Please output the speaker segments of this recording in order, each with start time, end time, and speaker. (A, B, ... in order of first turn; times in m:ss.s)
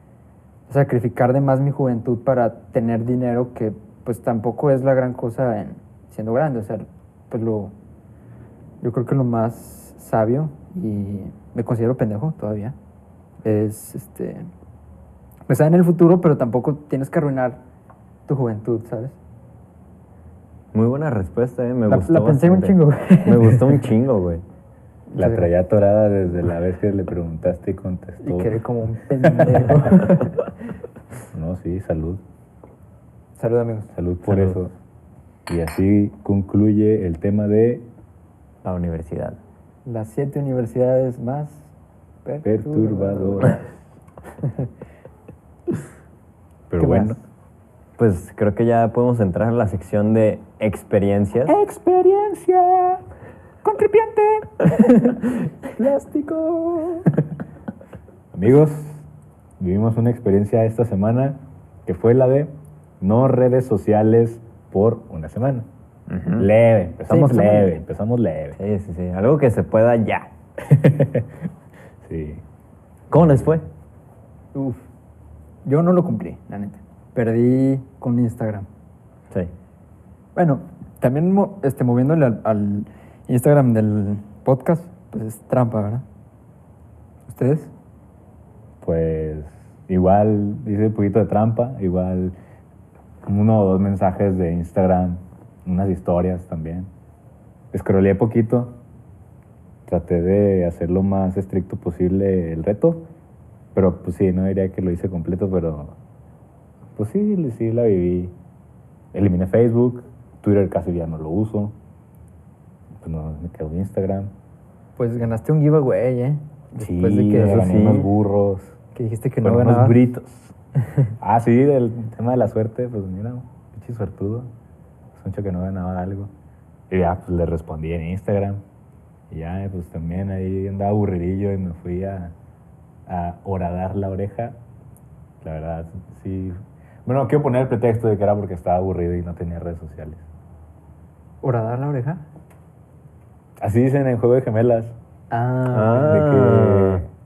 0:00.7-0:07.7 A
0:08.8-0:12.7 A
0:13.4-0:14.5 A
0:15.5-0:17.6 A
0:18.3-0:19.2 A
0:20.7-0:24.4 B
0:21.9-0:23.9 A
0:25.1-0:25.5 A
0:25.2-0:28.5 C
0:28.2-0:30.3 A
0:29.4-0:30.1 C
0:31.3-0:32.2 C
0:33.4-0:33.9 A
0:33.9-0:34.7 C
0:34.2-0:34.6 B
0:35.5-0:37.9 C
0:38.6-0:39.4 B
0:39.8-0:41.7 A
0:42.2-0:43.6 A
0:42.4-0:43.8 C
0:44.4-0:44.7 A
0:46.7-0:47.2 C
0:46.8-0:47.1 A
0:48.0-0:51.6 B
0:51.5-0:53.0 C
0:53.6-0:54.5 C
0:54.6-0:57.1 A
0:58.3-0:59.0 C
0:59.6-1:05.7 C
1:06.1-1:06.5 B
1:06.4-1:08.6 C
1:07.1-1:07.7 A
1:08.6-1:10.3 B
1:10.6-1:11.3 C
1:12.0-1:12.4 C
1:13.1-1:13.6 B
1:13.1-1:13.6 C
1:14.5-1:14.8 A
1:15.6-1:18.7 A
1:20.4-1:26.0 A
1:27.3-1:27.7 A
1:28.8-1:32.3 C
1:33.2-1:36.9 C
1:37.7-1:38.8 C
1:39.9-1:43.1 C
1:43.7-1:45.9 C
1:46.9-1:48.3 C
1:49.1-1:51.7 C
1:53.0-1:54.3 C
1:55.0-1:57.9 A
1:56.8-1:58.8 C
1:57.4-1:58.1 B
1:58.9-2:00.0 A
1:59.4-2:00.5 C
2:01.2-2:04.5 C
2:05.1-2:06.3 C
2:06.9-2:08.6 C
2:09.3-2:12.3 C
2:13.1-2:14.6 C
2:15.4-2:20.2 C
2:21.4-2:22.2 A
2:23.6-2:25.0 C
2:25.3-2:26.2 A
2:25.7-2:27.0 B
2:26.0-2:27.1 C